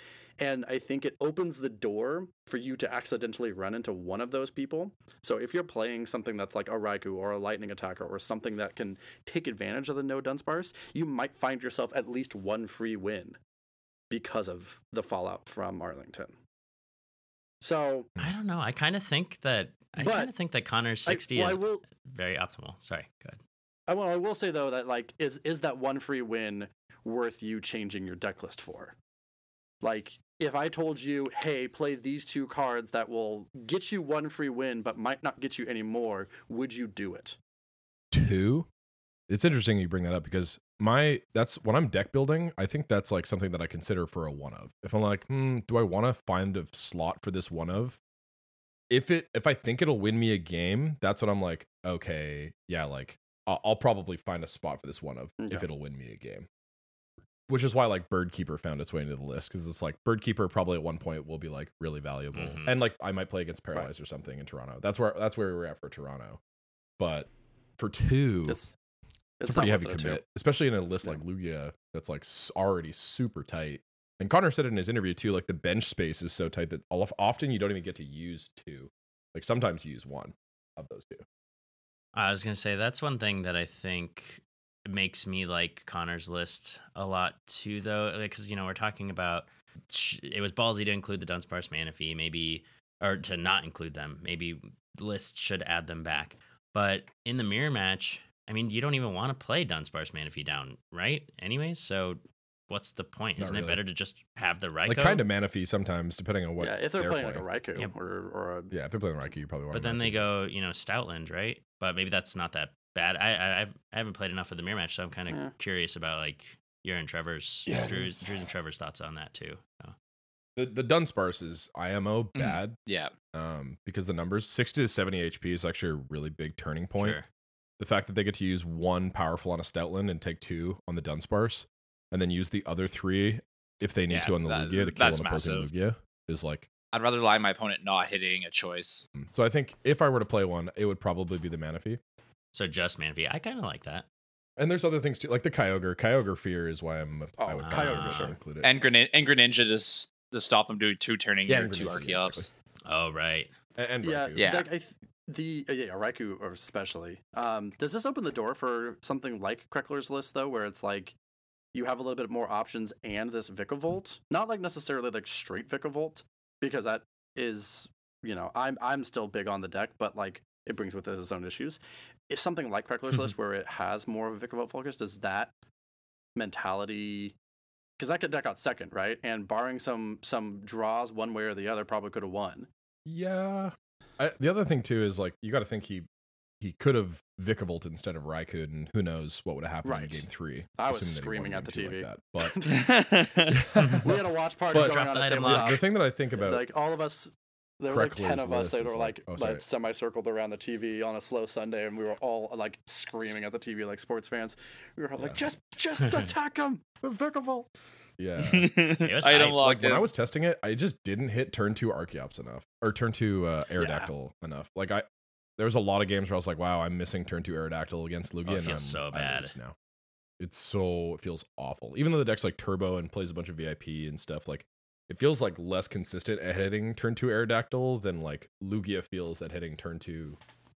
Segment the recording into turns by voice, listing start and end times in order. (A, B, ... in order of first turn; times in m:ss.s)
0:00.4-0:13.4 A
0:14.1-0:16.3 A
0:17.6-0:18.1 A
0:18.2-0:23.4 B
0:20.0-0:20.3 A
0:21.0-0:21.8 A
0:23.9-0:28.9 A
0:29.8-0:37.4 A
0:38.1-0:38.7 C
0:39.3-0:48.0 C
0:48.9-0:56.4 C
0:55.4-0:55.6 A
0:57.5-1:06.4 C
1:02.3-1:02.8 B
1:07.0-1:08.6 C
1:08.4-1:08.7 A
1:09.4-1:10.2 A
1:09.4-1:21.2 C
1:22.1-1:45.2 B
1:43.4-1:43.8 C
1:44.8-1:47.4 C
1:46.6-1:48.7 A
1:48.7-1:50.3 C
1:49.7-1:59.9 B
1:57.6-1:58.3 C
2:00.6-2:02.8 C
2:02.4-2:03.1 D
2:03.3-2:07.2 C
2:07.0-2:07.2 B
2:07.8-2:16.7 C
2:14.1-2:15.7 D
2:16.9-2:19.0 D
2:19.1-2:22.0 C
2:22.5-2:24.0 B
2:24.6-2:28.8 C
2:27.4-2:28.4 A
2:27.6-2:28.3 B
2:28.6-2:32.5 D
2:31.5-2:32.5 C
2:32.8-2:33.5 B
2:33.8-2:34.5 C
2:34.0-2:41.1 A
2:34.4-2:34.7 D
2:41.7-2:55.5 A
2:56.4-2:57.3 A
2:58.0-3:02.7 A
3:03.0-3:06.1 C
3:06.6-3:12.6 C
3:09.8-3:10.2 A
3:10.8-3:15.8 A
3:12.6-3:13.6 D
3:13.5-3:16.6 C
3:13.8-3:14.0 B
3:14.7-3:15.8 B
3:16.4-3:27.7 A
3:17.9-3:19.6 C
3:28.2-3:28.7 C
3:28.4-3:30.1 D
3:29.0-3:29.6 B
3:29.4-3:35.0 C
3:33.8-3:34.1 A
3:35.6-3:39.8 C
3:38.4-3:39.5 B
3:40.4-3:50.4 C